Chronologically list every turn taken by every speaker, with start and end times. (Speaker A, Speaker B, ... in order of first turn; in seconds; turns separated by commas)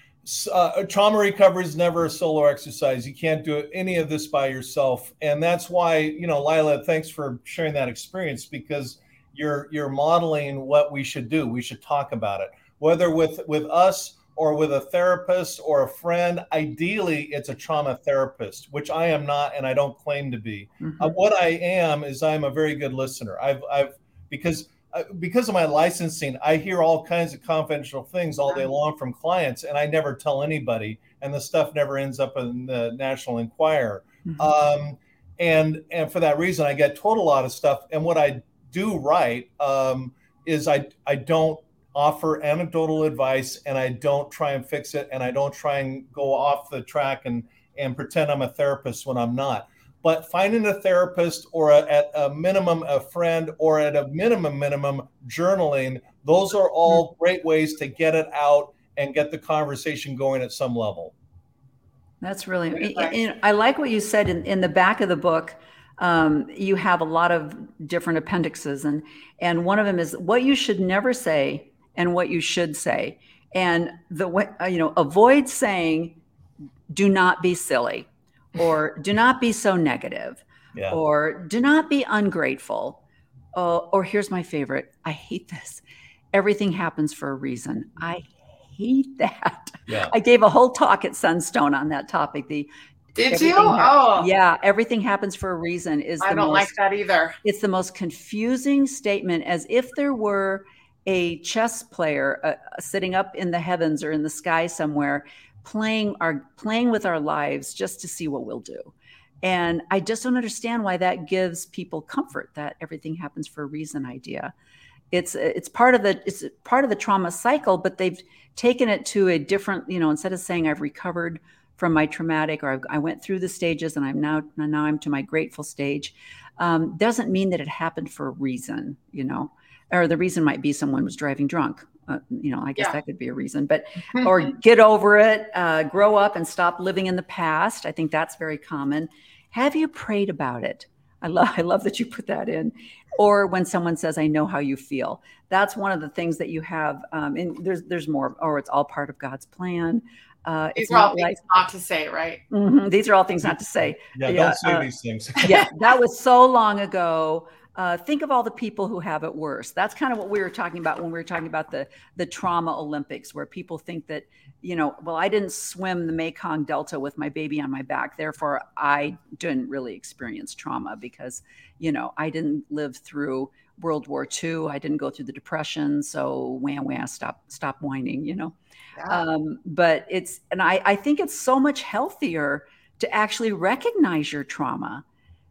Speaker A: 0.2-61.1, Speaker B: 20.8-21.1, Speaker B: 34.2-34.5, Speaker B: 62.2-76.2, Speaker C: 62.7-63.1, Speaker B: 76.9-83.0, Speaker A: 80.7-81.0, Speaker B: 83.5-85.8, Speaker B: 86.3-92.7, Speaker A: 89.9-90.1, Speaker C: 93.1-94.3, Speaker B: 93.3-96.7, Speaker C: 96.2-97.4, Speaker B: 97.4-114.5, Speaker B: 115.1-151.4, Speaker C: 150.8-152.4, Speaker B: 152.5-178.5, Speaker A: 154.1-155.6, Speaker C: 178.9-179.2, Speaker B: 179.1-185.0